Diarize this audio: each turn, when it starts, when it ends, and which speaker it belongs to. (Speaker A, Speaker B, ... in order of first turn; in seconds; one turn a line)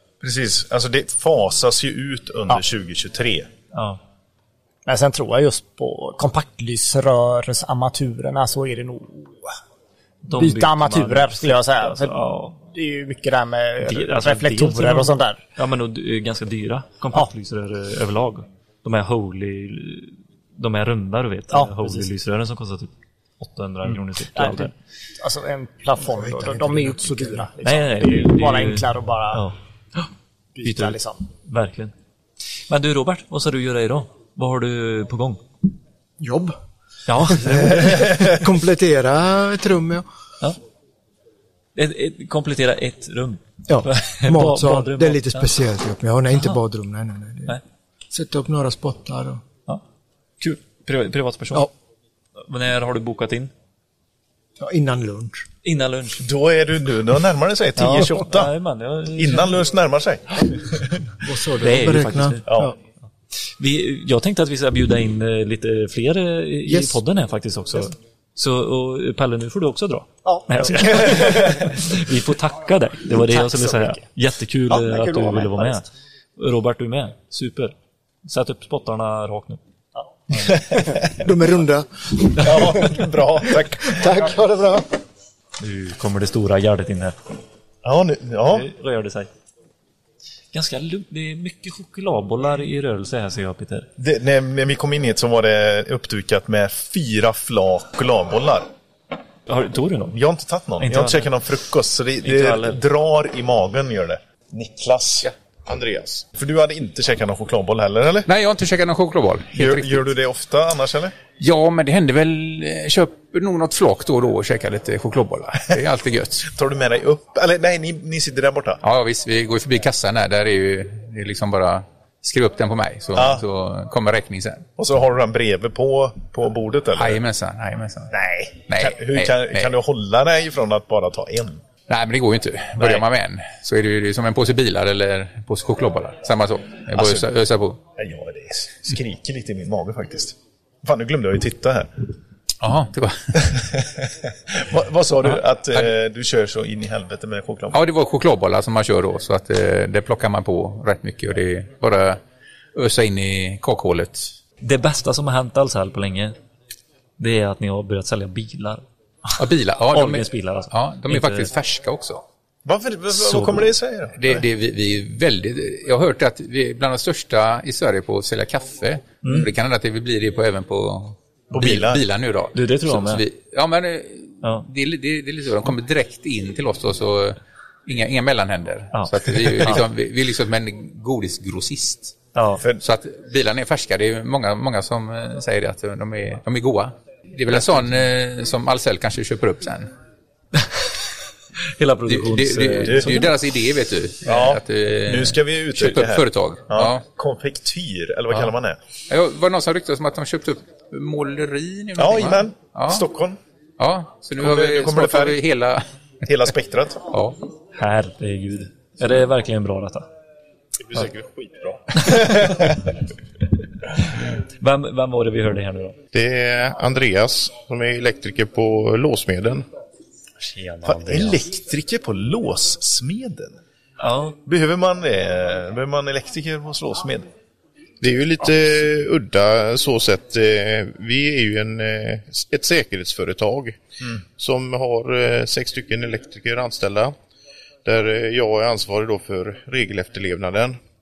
Speaker A: 0.2-3.5
Speaker B: 3.7-4.0
Speaker C: 4.8-9.5
Speaker B: 10.2-12.6
Speaker C: 10.3-15.4
Speaker B: 13.8-24.7
Speaker C: 21.5-22.1
Speaker C: 24.3-29.5
Speaker D: 26.0-27.5
Speaker B: 27.6-29.5
Speaker C: 30.5-31.2
Speaker B: 30.6-31.9
Speaker B: 32.7-35.4
Speaker D: 36.2-36.5
Speaker B: 37.1-38.0
Speaker D: 37.2-40.0
Speaker B: 41.8-45.5
Speaker D: 43.7-47.6
Speaker D: 48.1-49.4
Speaker B: 50.4-51.7
Speaker B: 52.4-53.5
Speaker D: 54.6-55.5
Speaker B: 55.6-56.2
Speaker A: 56.2-58.5
Speaker B: 57.8-59.6
Speaker A: 59.1-61.0
Speaker D: 61.2-62.7
Speaker B: 61.6-62.5
Speaker A: 62.5-62.7
Speaker B: 63.6-75.8
Speaker D: 66.7-67.0
Speaker C: 70.2-71.1
Speaker A: 70.9-71.6
Speaker C: 73.2-74.1
Speaker C: 74.7-75.9
Speaker B: 76.4-77.7
Speaker B: 78.2-79.6
Speaker A: 80.4-80.8
Speaker D: 81.1-84.9
Speaker A: 82.4-84.1
Speaker B: 85.6-87.2
Speaker A: 87.8-88.7
Speaker B: 88.5-89.3
Speaker B: 90.5-93.9
Speaker A: 94.0-98.7
Speaker B: 99.5-100.2
Speaker A: 100.1-105.3
Speaker B: 100.8-101.3
Speaker B: 102.2-102.8
Speaker E: 105.7-106.2
Speaker A: 106.3-108.3
Speaker F: 108.2-110.1
Speaker A: 109.5-111.1
Speaker F: 111.4-116.5
Speaker A: 116.5-118.8
Speaker F: 118.8-124.7
Speaker A: 123.2-123.4
Speaker A: 124.8-127.2
Speaker F: 127.0-128.1
Speaker A: 128.1-131.6
Speaker F: 128.7-129.7
Speaker F: 131.9-137.8
Speaker A: 136.9-137.3
Speaker A: 137.9-141.9
Speaker F: 142.6-143.4
Speaker A: 143.3-147.8
Speaker F: 147.7-152.2
Speaker F: 152.7-154.3
Speaker B: 154.6-156.3
Speaker B: 157.2-161.5
Speaker F: 159.4-162.2
Speaker A: 162.6-164.4
Speaker F: 164.2-182.2
Speaker B: 169.2-169.5
Speaker A: 171.5-172.0
Speaker B: 172.5-173.2
Speaker B: 174.4-174.7
Speaker B: 178.9-179.8
Speaker B: 182.3-182.6
Speaker F: 182.8-189.9
Speaker B: 190.6-190.9
Speaker B: 191.6-193.3
Speaker F: 192.1-197.0
Speaker A: 192.8-193.2
Speaker A: 194.2-198.8
Speaker F: 199.1-203.1
Speaker A: 202.0-203.4
Speaker F: 203.8-205.8
Speaker A: 204.4-205.4
Speaker A: 206.2-207.1
Speaker F: 207.1-207.4
Speaker B: 207.7-210.1
Speaker A: 211.9-212.8
Speaker B: 214.0-216.0
Speaker E: 216.1-219.6
Speaker B: 220.4-221.4
Speaker A: 220.8-223.6
Speaker B: 224.0-224.4
Speaker A: 224.4-227.3
Speaker E: 228.0-233.8
Speaker E: 234.4-237.2
Speaker E: 237.8-240.8